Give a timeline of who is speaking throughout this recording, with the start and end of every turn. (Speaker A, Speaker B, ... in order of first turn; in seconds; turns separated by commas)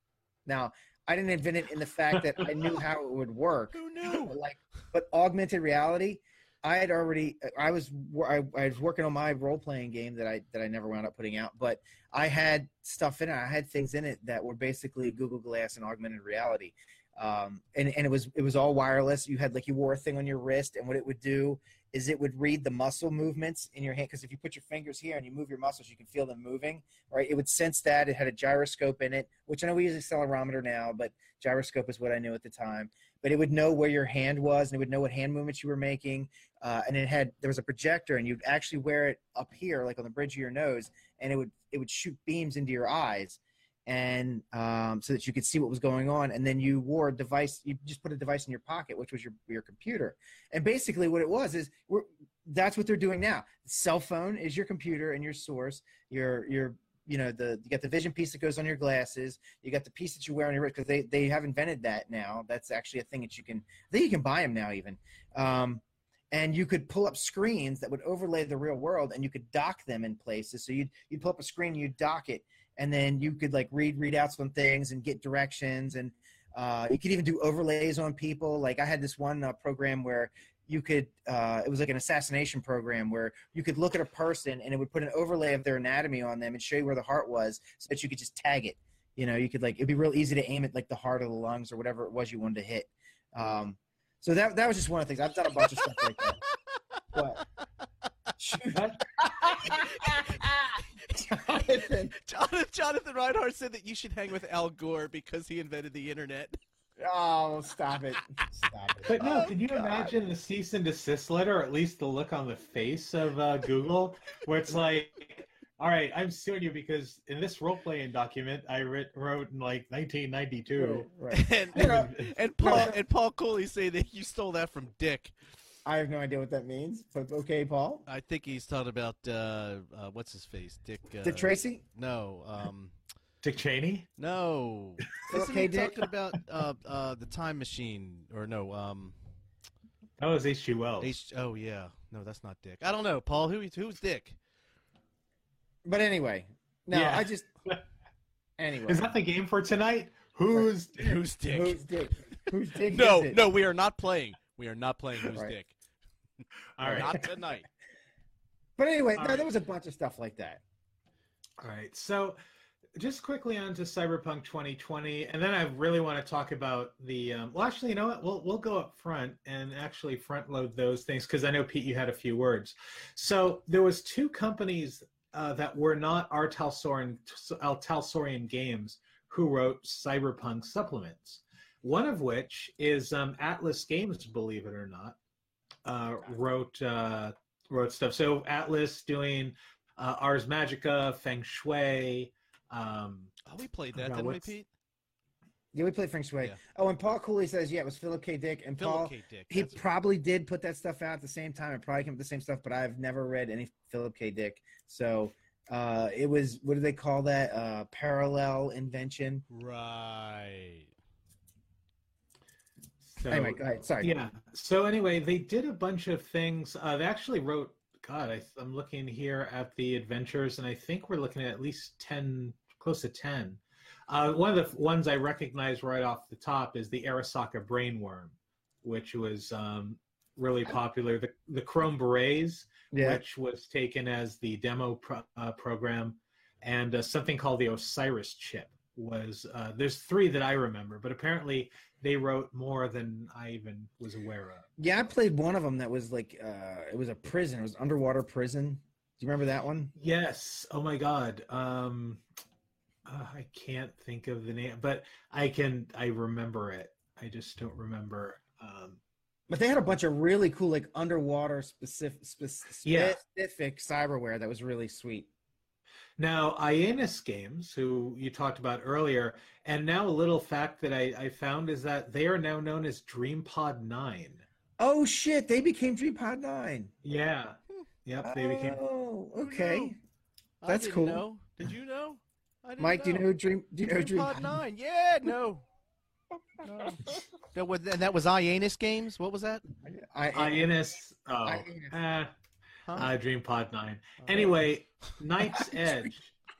Speaker A: 0.5-96.4, Speaker B: 3.8-4.4, Speaker B: 95.7-96.3, Speaker A: 97.1-97.4, Speaker A: 98.4-102.1, Speaker C: 98.7-99.0, Speaker B: 101.1-106.6, Speaker A: 107.0-110.1, Speaker C: 109.0-121.1, Speaker B: 109.2-109.5, Speaker A: 120.8-123.0, Speaker B: 121.3-125.3, Speaker C: 121.7-122.3, Speaker A: 125.8-128.0, Speaker B: 128.1-132.9, Speaker A: 131.2-131.8, Speaker C: 133.4-134.1, Speaker B: 134.2-139.2, Speaker A: 135.3-136.0, Speaker C: 140.2-141.1, Speaker B: 141.0-144.4, Speaker A: 145.8-147.5, Speaker C: 146.9-147.8, Speaker A: 148.6-149.1, Speaker C: 148.9-151.2, Speaker A: 150.5-153.4, Speaker B: 151.0-151.8, Speaker B: 152.8-155.7, Speaker C: 156.8-157.2, Speaker A: 156.8-157.3, Speaker B: 156.8-157.7, Speaker A: 158.8-160.6, Speaker C: 159.2-159.5, Speaker C: 161.6-162.4, Speaker C: 163.0-185.2, Speaker C: 185.9-193.3, Speaker B: 193.5-194.7, Speaker C: 193.9-194.5, Speaker A: 195.7-209.4, Speaker B: 198.8-199.8, Speaker B: 209.5-210.9, Speaker C: 213.1-244.7, Speaker A: 213.3-214.1, Speaker A: 232.9-233.2, Speaker A: 244.8-249.9, Speaker C: 250.0-252.2, Speaker C: 253.1-259.0, Speaker A: 259.5-265.3, Speaker C: 262.8-263.2, Speaker C: 266.2-274.4, Speaker A: 274.8-276.9, Speaker C: 277.0-278.8, Speaker A: 278.2-280.0, Speaker B: 279.4-279.9, Speaker B: 280.6-283.2, Speaker A: 280.6-281.2, Speaker A: 282.8-284.6, Speaker B: 283.9-285.6, Speaker A: 286.6-287.1, Speaker B: 286.6-289.6, Speaker A: 289.8-290.7, Speaker C: 290.3-292.3, Speaker A: 291.4-291.9, Speaker C: 292.9-296.4